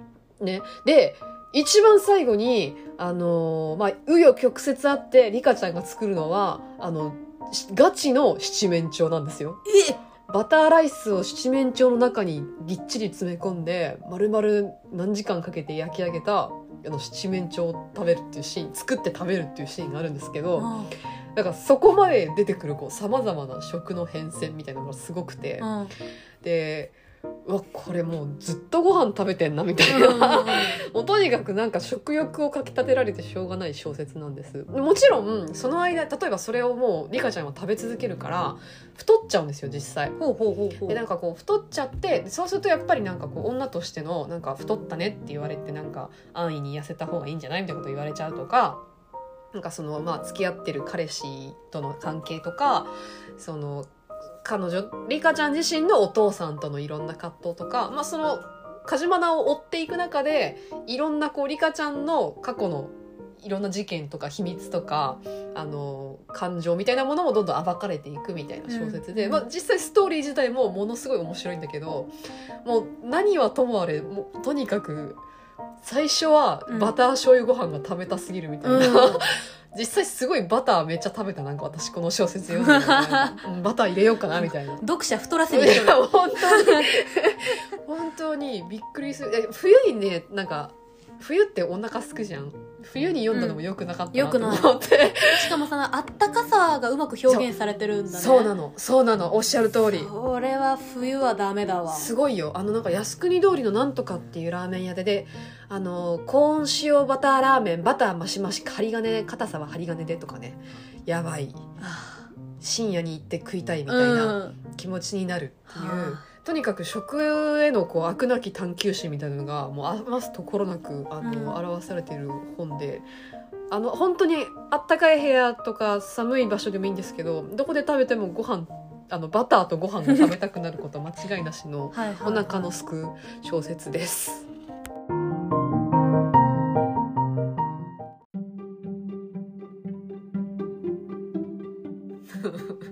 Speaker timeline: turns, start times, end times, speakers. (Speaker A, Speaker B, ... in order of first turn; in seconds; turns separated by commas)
Speaker A: 0.4-9.6, Speaker B: 9.7-10.0, Speaker A: 10.3-20.7, Speaker B: 20.6-20.9, Speaker A: 21.3-25.7, Speaker B: 25.6-25.9, Speaker A: 26.4-40.2, Speaker B: 29.9-30.8, Speaker B: 40.2-41.0, Speaker A: 40.9-48.8, Speaker A: 49.5-53.9, Speaker A: 54.4-72.1, Speaker B: 68.7-69.4, Speaker A: 72.6-75.2, Speaker A: 75.8-84.8, Speaker B: 76.7-76.9, Speaker B: 78.6-79.3, Speaker B: 82.5-83.4, Speaker B: 84.3-86.9, Speaker A: 85.5-95.7, Speaker B: 93.3-93.6, Speaker B: 94.1-94.8, Speaker B: 95.3-98.5, Speaker A: 98.1-100.1, Speaker B: 99.9-102.1, Speaker A: 101.9-111.7, Speaker B: 111.8-112.3, Speaker A: 112.6-123.0, Speaker B: 113.9-114.5, Speaker B: 115.7-116.2, Speaker B: 121.2-121.6, Speaker A: 123.7-134.5, Speaker B: 131.9-132.7, Speaker A: 142.4-142.8